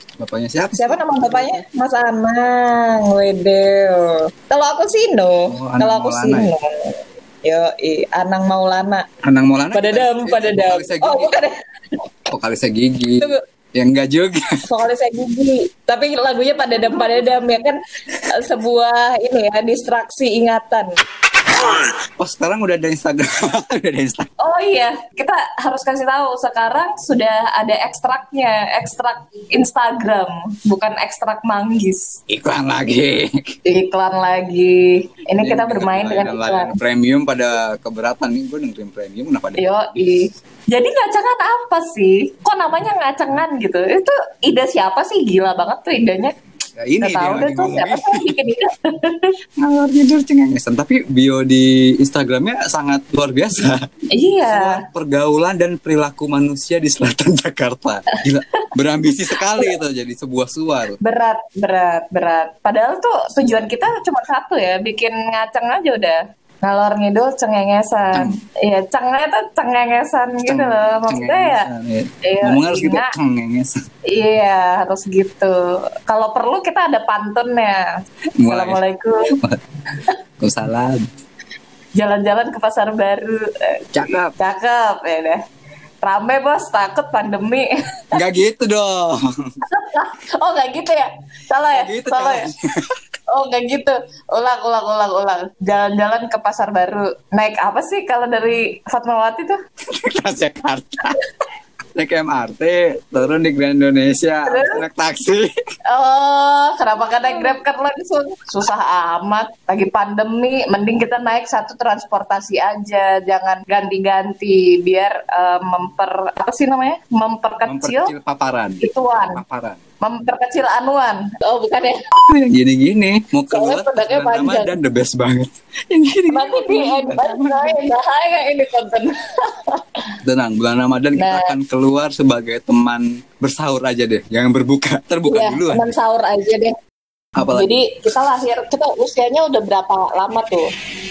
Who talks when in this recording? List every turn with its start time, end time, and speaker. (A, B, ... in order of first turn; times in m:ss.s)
0:00.2-0:01.6 A
0:00.8-0:09.0 B
0:05.5-0:06.5 A
0:09.2-0:11.4 A
0:09.7-0:11.6 B
0:12.3-0:14.5 A
0:14.7-0:20.9 B
0:21.6-0:24.3 A
0:24.4-0:32.2 B
0:32.3-0:33.5 A
0:33.7-0:36.8 B
0:35.4-0:39.8 A
0:39.6-0:46.3 B
0:46.8-0:48.3 A
0:47.0-0:49.3 B
0:49.6-0:53.8 A
0:54.1-0:54.8 B
0:54.5-1:01.0 A
1:01.0-1:11.7 B
1:10.4-1:13.8 A
1:12.2-1:13.1 B
1:14.1-1:17.9 B
1:18.4-1:18.8 A
1:18.5-1:19.3 B
1:20.4-1:21.1 A
1:22.0-1:23.8 B
1:23.9-1:24.3 A
1:24.4-1:25.4 B
1:26.0-1:28.0 B
1:28.1-1:29.2 A
1:29.7-1:32.5 B
1:31.7-1:32.8 A
1:33.3-1:39.6 B
1:39.9-1:41.2 A
1:42.0-1:45.5 A
1:44.5-1:44.8 B
1:45.9-1:58.1 B
1:57.6-1:59.8 A
1:58.8-1:59.4 B
2:00.0-2:02.0 B
2:02.3-2:07.8 A
2:03.5-2:04.8 B
2:06.3-2:10.1 B
2:10.2-2:15.9 A
2:11.2-2:11.5 B
2:15.3-2:16.7 B
2:17.4-2:17.9 A
2:17.4-2:20.7 B